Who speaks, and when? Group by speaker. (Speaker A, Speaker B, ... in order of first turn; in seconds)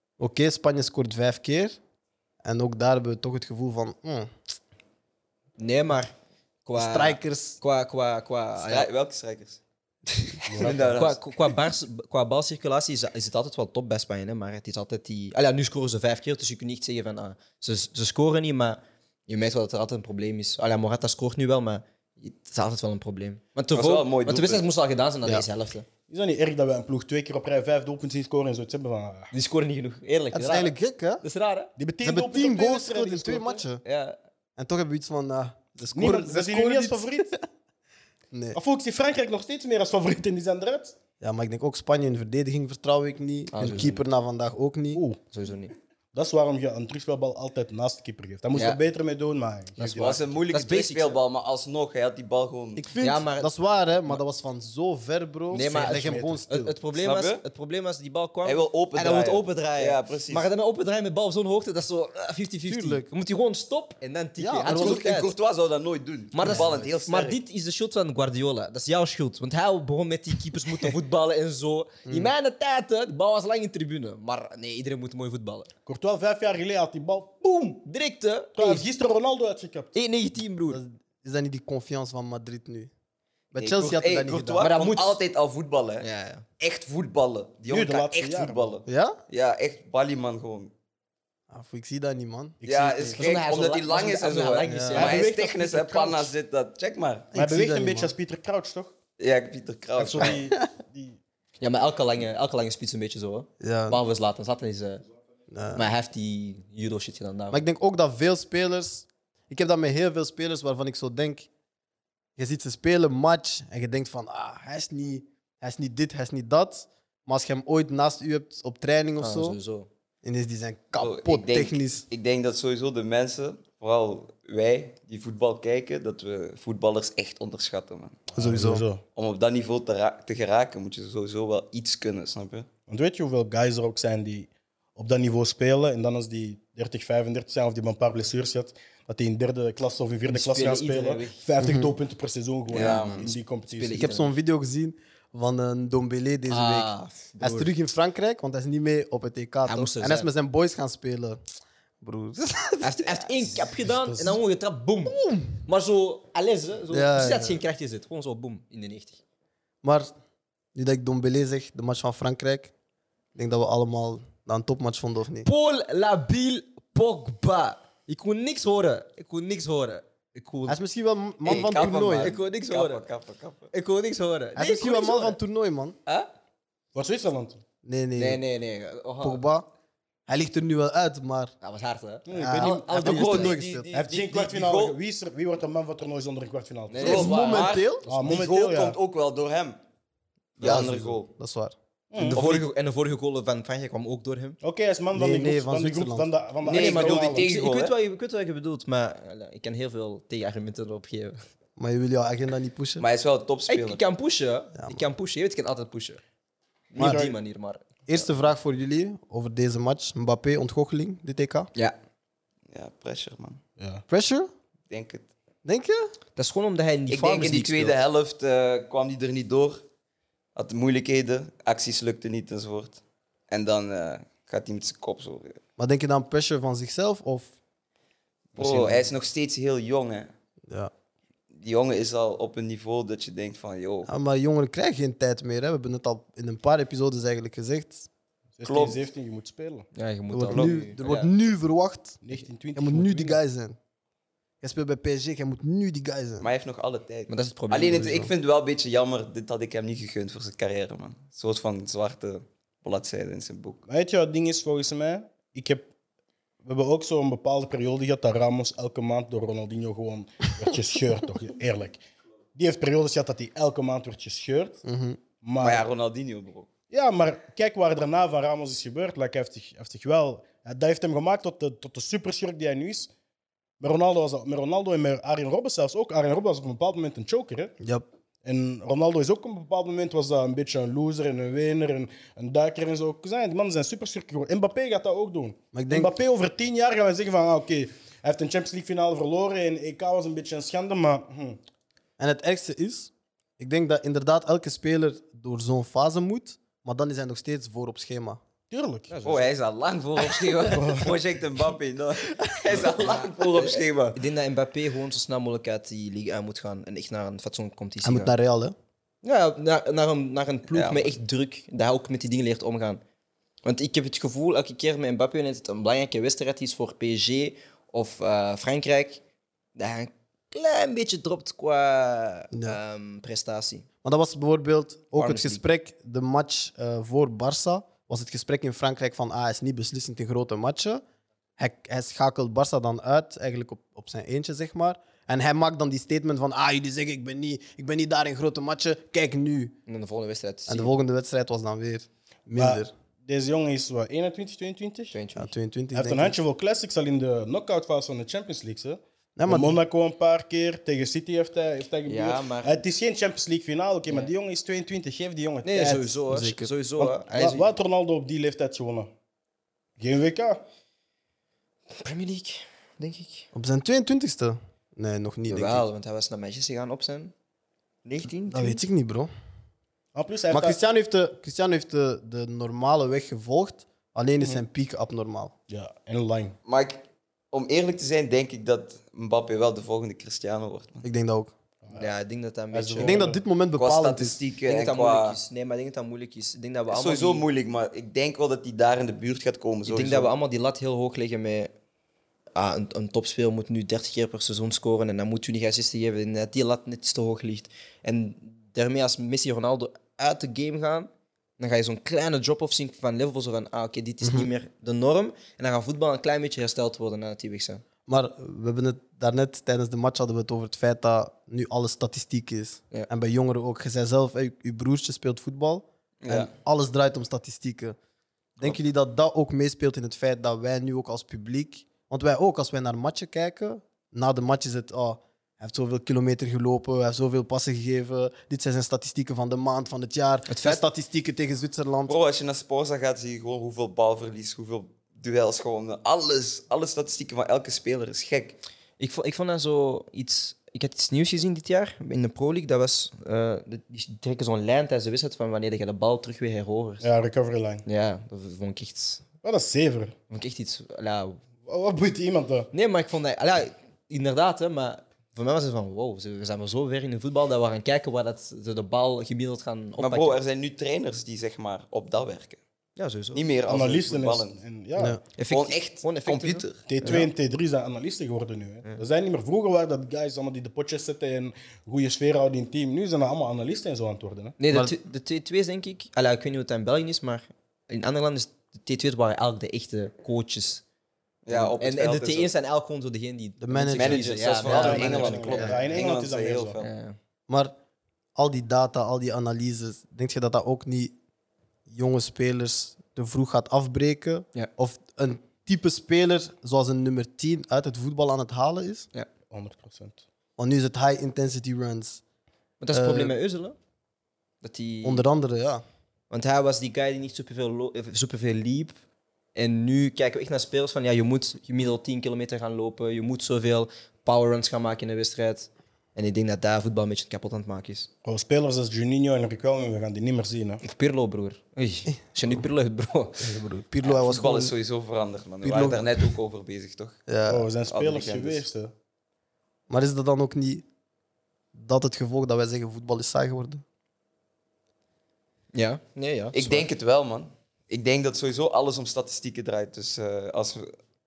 Speaker A: 0.2-1.8, 2.4-4.3, 6.7-7.6, 30.3-31.2, 32.0-33.8, 34.6-37.3, 38.3-38.6, 41.2-45.0, 52.8-56.7, 62.7-63.1, 64.4-65.0, 66.4-66.9, 72.0-72.3, 80.7-82.9, 83.5-84.7, 88.9-89.2, 91.5-92.6, 94.6-95.1, 97.3-98.1, 100.2-100.7, 103.6-104.0, 105.5-105.8, 107.5-111.5, 112.4-119.6, 120.2-122.0, 128.4-128.8, 141.6-141.9, 143.9-151.4, 152.0-153.1, 155.1-155.5, 156.9-157.6, 159.8-160.1, 160.7-162.7, 163.3-165.5, 170.7-172.3, 174.6-176.0, 177.8-178.4, 179.2-179.7, 180.3-181.5, 182.3-183.9, 187.0-188.1, 190.6-191.7, 195.1-196.3, 201.8-203.0, 204.8-205.0, 207.0-207.3, 208.1-211.7, 214.1-214.5, 215.6-216.1, 225.8-227.5, 234.1-238.1, 240.3-242.2, 242.7-243.8, 244.6-246.5, 247.9-248.3, 264.8-265.2, 285.7-286.1, 292.2-298.4, 302.4-302.8, 308.0-308.7, 322.5-322.8, 324.0-331.0, 331.6-339.7, 340.7-342.9, 345.4-346.3, 349.4-349.8, 356.3-356.7, 363.5-365.9, 368.5-369.3, 370.5-375.5, 381.0-381.5, 383.0-384.4, 404.2-404.5, 408.1-417.9, 418.6-432.1, 483.6-484.3, 488.4-491.1, 491.9-499.1, 500.6-502.2, 502.9-503.4, 505.0-505.8, 523.4-524.7, 525.6-526.3, 527.3-527.7, 529.9-530.8, 531.7-533.8
Speaker B: 5.6-6.1, 6.6-8.9, 10.9-25.9, 29.3-31.7, 33.8-34.2, 43.5-44.0, 45.3-45.8, 48.5-48.8, 49.8-51.1, 53.0-53.5, 55.5-65.3, 66.3-75.7, 77.4-78.8, 79.9-80.8, 84.6-85.2, 86.0-86.4, 93.2-95.5, 101.6-105.0, 105.7-107.6, 119.2-119.9, 140.3-141.4, 142.7-144.3, 146.5-147.7, 149.6-150.3, 152.8-159.2, 165.4-170.8, 172.2-173.0, 173.7-175.4, 178.2-179.4, 181.6-183.6, 186.9-187.4, 192.1-194.6, 196.7-201.4, 203.7-206.2, 206.9-207.9, 216.3-217.9, 239.9-241.3, 247.3-248.2, 299.1-299.5, 302.7-308.3, 309.2-313.0, 313.6-319.2, 319.8-323.9, 325.1-325.6, 339.9-340.9, 345.1-345.5, 352.1-352.8, 355.6-357.7, 362.0-363.5, 365.5-367.3, 368.0-368.8, 381.9-383.2, 384.7-387.4, 389.9-391.7, 392.5-407.8, 430.5-430.8, 439.0-447.1, 447.8-449.2, 450.3-451.4, 452.7-460.4, 463.0-463.4, 465.4-467.3, 474.6-480.8, 481.5-485.9, 486.8-487.1, 502.8-503.8, 504.6-505.2, 506.3-508.9, 509.5-518.1, 520.8-523.5, 535.7-536.8
Speaker C: 8.6-9.6, 10.4-11.5, 23.7-24.6, 49.9-52.8, 56.9-57.4, 58.4-60.5, 64.7-67.4, 83.5-86.0, 86.6-90.7, 92.6-97.3, 99.2-100.4, 121.0-128.3, 129.1-132.7, 142.7-143.3, 171.4-173.7, 183.0-185.0, 187.0-189.8, 190.6-191.3, 192.3-192.7, 196.6-197.9, 203.0-204.0, 212.7-213.6, 214.9-215.3, 217.1-219.8, 220.5-225.6, 228.6-230.3, 231.5-234.1, 238.6-239.1, 240.5-240.9, 246.4-253.8, 265.6-266.7, 299.2-304.2, 310.7-311.1, 376.6-381.1, 383.8-385.4, 386.9-390.3, 416.2-416.5, 432.1-438.6, 460.0-462.6, 463.3-464.6, 465.5-466.8, 481.4-482.5, 483.9-486.9, 524.0-527.2, 527.8-528.6, 536.5-540.9
Speaker D: 10.5-11.0, 26.1-29.3, 31.8-33.6, 35.9-37.4, 38.5-40.9, 44.9-45.2, 46.1-50.2, 55.5-56.4, 75.8-77.5, 78.5-79.9, 87.7-88.7, 92.6-93.2, 94.9-96.3, 97.3-98.9, 100.0-101.2, 128.3-129.0, 132.9-144.1, 153.8-154.4, 176.9-177.6, 182.2-183.1, 183.9-187.2, 188.1-189.0, 192.1-192.4, 194.6-197.5, 213.8-214.0, 228.6-228.9, 238.6-239.9, 242.2-243.4, 253.9-255.9, 256.6-262.0, 262.5-264.8, 265.4-265.8, 266.9-273.1, 273.8-277.7, 278.4-291.6, 298.7-299.1, 300.7-301.1, 342.6-345.1, 345.9-356.2, 357.0-359.1, 360.0-360.6, 370.1-370.8, 375.7-376.6, 381.8-382.1, 382.7-383.4, 447.0-447.8, 449.4-450.1, 451.6-452.7, 463.6-465.2, 466.9-474.6, 484.6-486.8, 499.5-500.2, 518.2-520.8, 527.5-528.9